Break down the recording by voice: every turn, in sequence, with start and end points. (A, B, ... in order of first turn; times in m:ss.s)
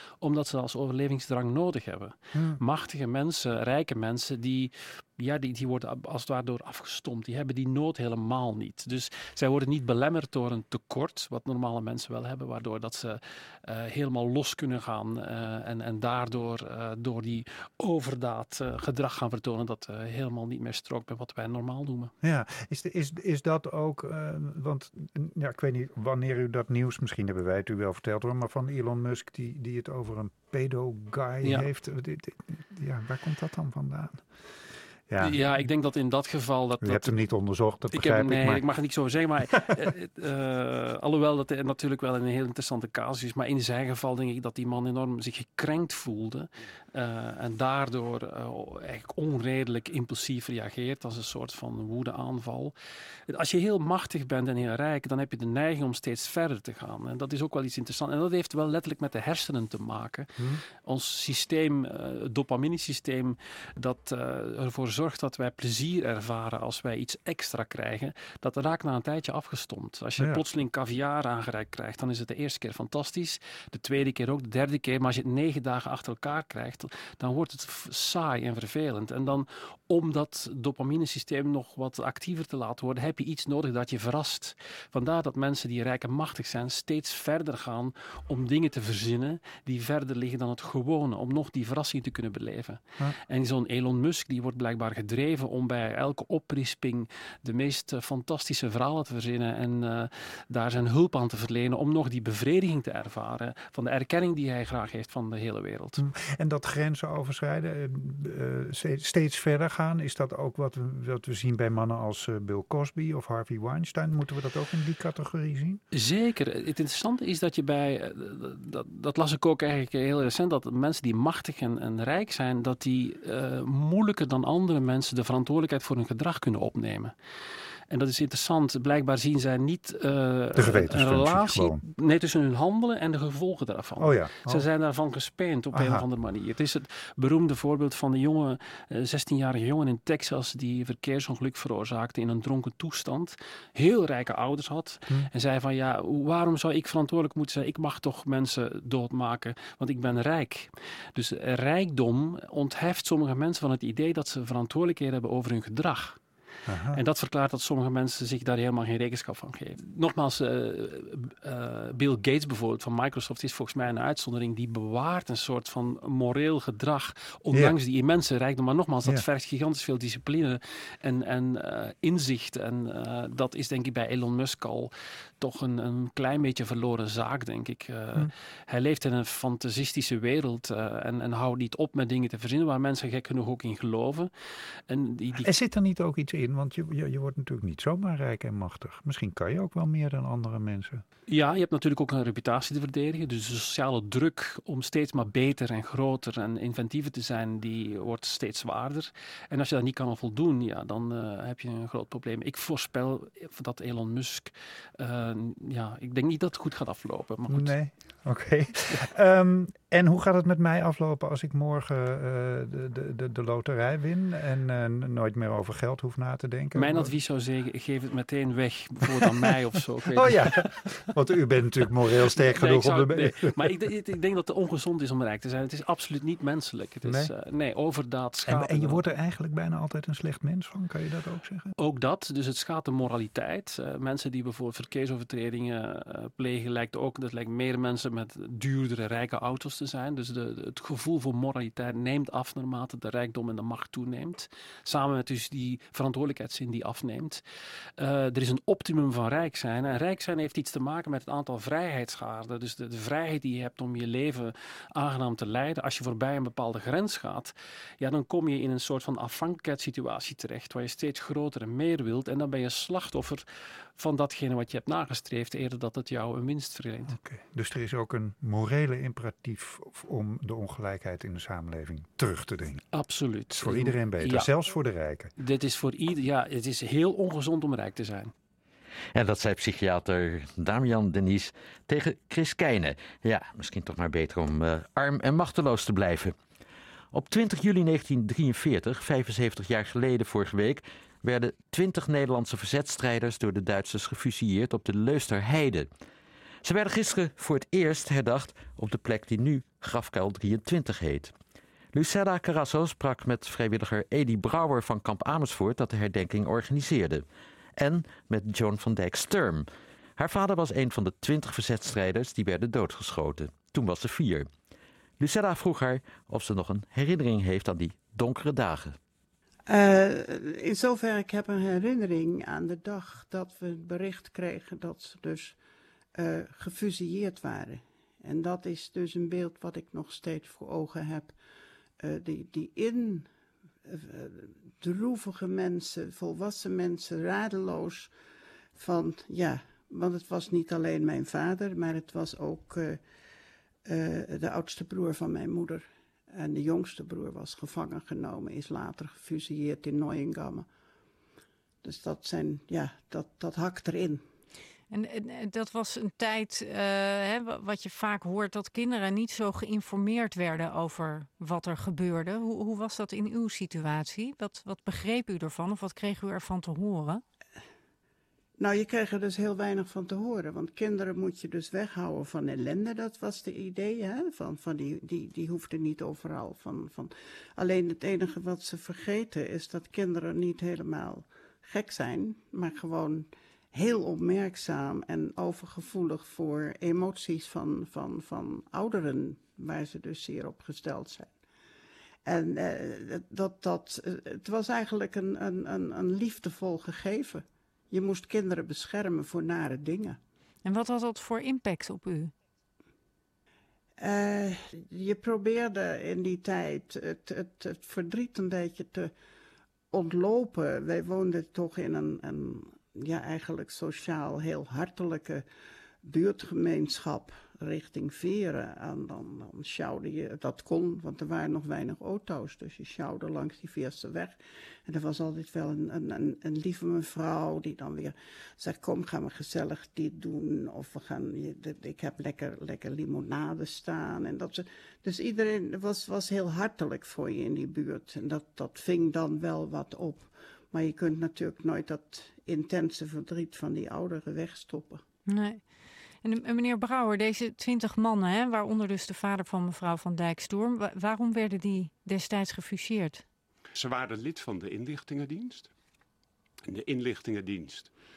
0:00.2-0:22.1 A
0:02.3-0:02.6 B
0:22.2-0:34.2 B
0:35.1-0:35.4 B
0:35.2-0:37.2 A
0:36.8-0:38.7 B
0:37.9-0:52.8 A
0:53.3-1:46.0 A
1:46.0-1:55.8 B
1:55.9-2:07.1 A
2:07.9-2:36.2 A
2:10.6-2:11.8 B
2:14.0-2:14.7 B
2:15.7-2:16.0 B
2:36.7-2:37.0 B
2:36.9-3:04.3 A
3:04.9-3:05.5 A
3:05.4-3:11.0 B
3:11.3-3:27.8 A
3:27.5-3:37.1 B
3:36.8-3:41.1 A
3:40.2-3:43.8 B
3:42.4-3:49.0 A
3:47.0-3:47.3 B
3:48.4-3:51.7 B
3:51.8-4:07.4 A
4:08.0-4:23.5 A
4:24.0-4:27.2 A
4:27.1-4:32.8 B
4:32.9-4:34.5 A
4:33.6-4:35.3 B
4:35.4-4:38.3 A
4:39.2-4:46.4 C
4:47.1-4:55.9 C
4:56.6-5:01.3 C
5:01.9-5:07.2 C
5:07.8-5:14.5 C
5:15.2-5:19.0 C
5:19.7-5:25.6 D
5:26.2-5:31.4 D
5:32.0-5:33.3 D
5:33.9-5:38.1 D
5:38.8-5:43.0 D
5:43.9-5:50.7 D
5:51.8-5:54.2 D
5:54.9-6:07.2 E
6:08.6-6:31.3 D
6:32.3-6:40.2 D
6:40.6-6:42.3 E
6:44.0-6:49.1 D
6:49.9-6:55.4 D
6:56.0-7:25.0 D
7:25.3-7:25.6 E
7:26.2-7:33.2 E
7:33.7-7:35.7 F
7:36.7-7:37.9 F